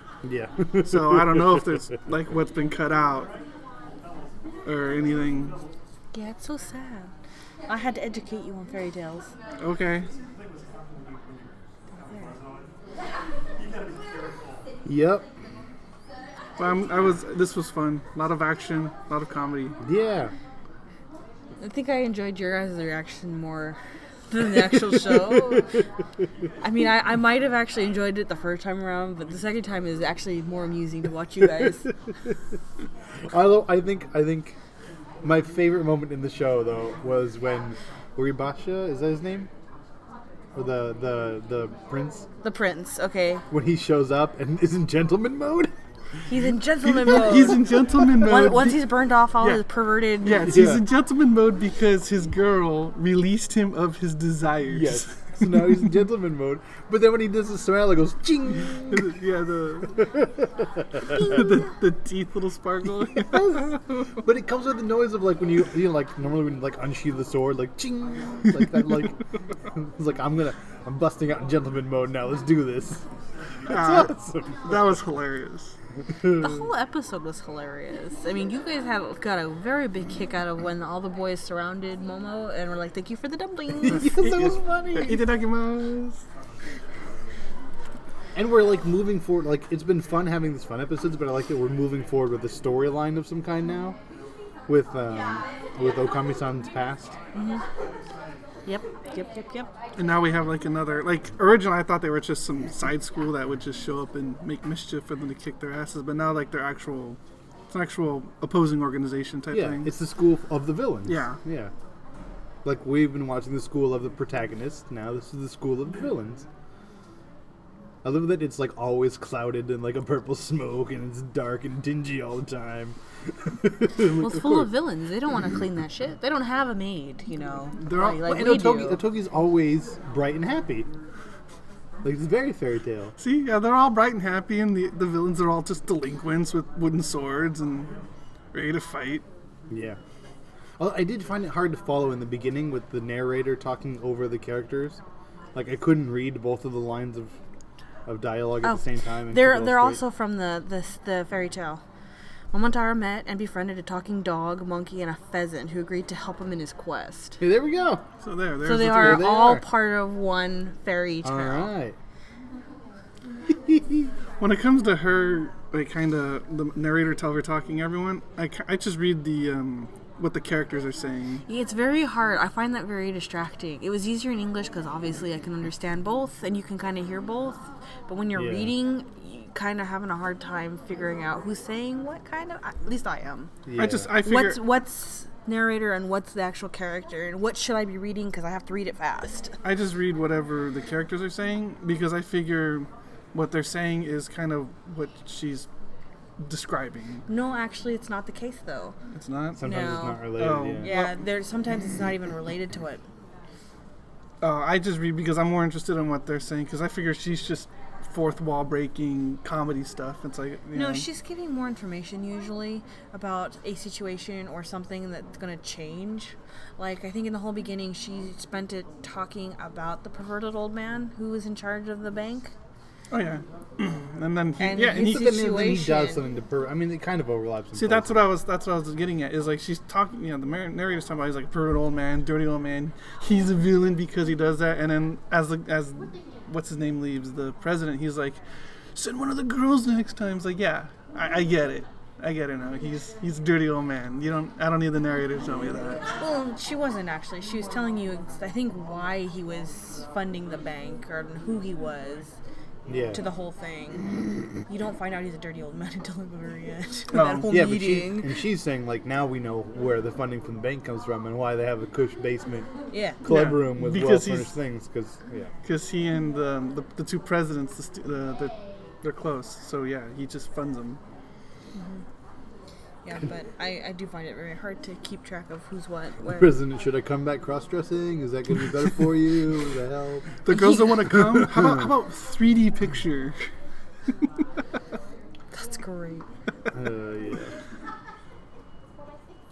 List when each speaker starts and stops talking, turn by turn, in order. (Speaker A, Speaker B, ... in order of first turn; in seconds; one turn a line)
Speaker A: 0.2-1.7
Speaker B: 0.8-3.3
Speaker B: 4.7-5.6
Speaker C: 6.1-7.1
Speaker C: 7.7-9.3
Speaker B: 9.6-10.1
Speaker C: 11.9-12.4
Speaker A: 14.8-15.3
Speaker B: 16.6-19.8
Speaker A: 19.8-20.3
Speaker C: 21.6-23.8
Speaker C: 24.3-25.7
Speaker C: 26.6-31.9
Speaker A: 33.3-34.6
Speaker A: 35.2-39.5
Speaker A: 40.5-42.3
Speaker C: 42.4-43.5
Speaker A: 43.5-45.7
Speaker C: 46.3-50.6
Speaker B: 47.0-49.6
Speaker B: 50.2-55.9
Speaker A: 50.4-50.9
Speaker A: 54.7-59.1
Speaker B: 58.9-60.0
Speaker A: 60.0-61.3
Speaker B: 61.0-64.0
Speaker A: 63.2-73.0
Speaker A: 73.7-74.9
Speaker B: 73.7-75.8
Speaker C: 76.3-84.1
Speaker A: 76.3-76.6
Speaker A: 83.8-85.3
Speaker B: 84.2-86.2
Speaker A: 88.3-94.0
Speaker A: 94.7-97.2
Speaker C: 97.3-97.6
Speaker C: 98.7-99.7
Speaker B: 100.0-107.2
Speaker B: 107.7-109.9
Speaker A: 109.5-111.7
Speaker B: 111.1-111.4
Speaker A: 112.7-116.5
Speaker A: 118.0-124.7
Speaker C: 124.0-129.0
Speaker B: 127.8-128.3
Speaker A: 128.1-130.9
Speaker A: 132.0-133.1
Speaker B: 133.2-137.9
Speaker B: 138.5-139.2
Speaker A: 139.7-140.0
Speaker A: 140.8-145.0
Speaker A: 145.6-147.4
Speaker A: 148.1-150.0
Speaker C: 148.6-151.8
Speaker C: 152.5-157.4
Speaker A: 157.4-158.1
Speaker B: 158.2-159.2
Speaker C: 158.6-161.7
Speaker A: 158.8-159.7
Speaker A: 161.2-162.0
Speaker A: 163.7-164.1
Speaker B: 164.4-171.4
Speaker C: 171.5-183.5
Speaker A: 178.3-178.8
Speaker A: 183.7-184.2
Speaker B: 183.8-184.6
Speaker C: 184.2-189.6
Speaker B: 189.6-195.7
Speaker B: 196.4-197.2
Speaker C: 197.3-199.0
Speaker B: 199.1-199.6
Speaker A: 199.6-201.1
Speaker C: 199.6-200.3
Speaker B: 200.4-201.2
Speaker C: 200.8-203.0
Speaker B: 204.4-211.1
Speaker C: 210.7-222.5
Speaker B: 223.1-225.4
Speaker C: 224.6-226.3
Speaker A: 224.7-228.3
Speaker B: 227.8-238.4
Speaker B: 238.9-246.0
Speaker C: 246.1-252.4
Speaker A: 252.9-253.2
Speaker C: 253.1-258.4
Speaker B: 257.1-257.5
Speaker A: 257.4-262.7
Speaker C: 262.9-263.2
Speaker A: 263.2-265.5
Speaker B: 263.2-264.5
Speaker B: 265.6-271.0
Speaker C: 271.8-272.0
Speaker C: 273.0-276.6
Speaker A: 276.2-280.4
Speaker B: 280.4-283.4
Speaker C: 280.5-281.2
Speaker A: 281.0-281.9
Speaker C: 285.5-286.2
Speaker A: 286.7-287.5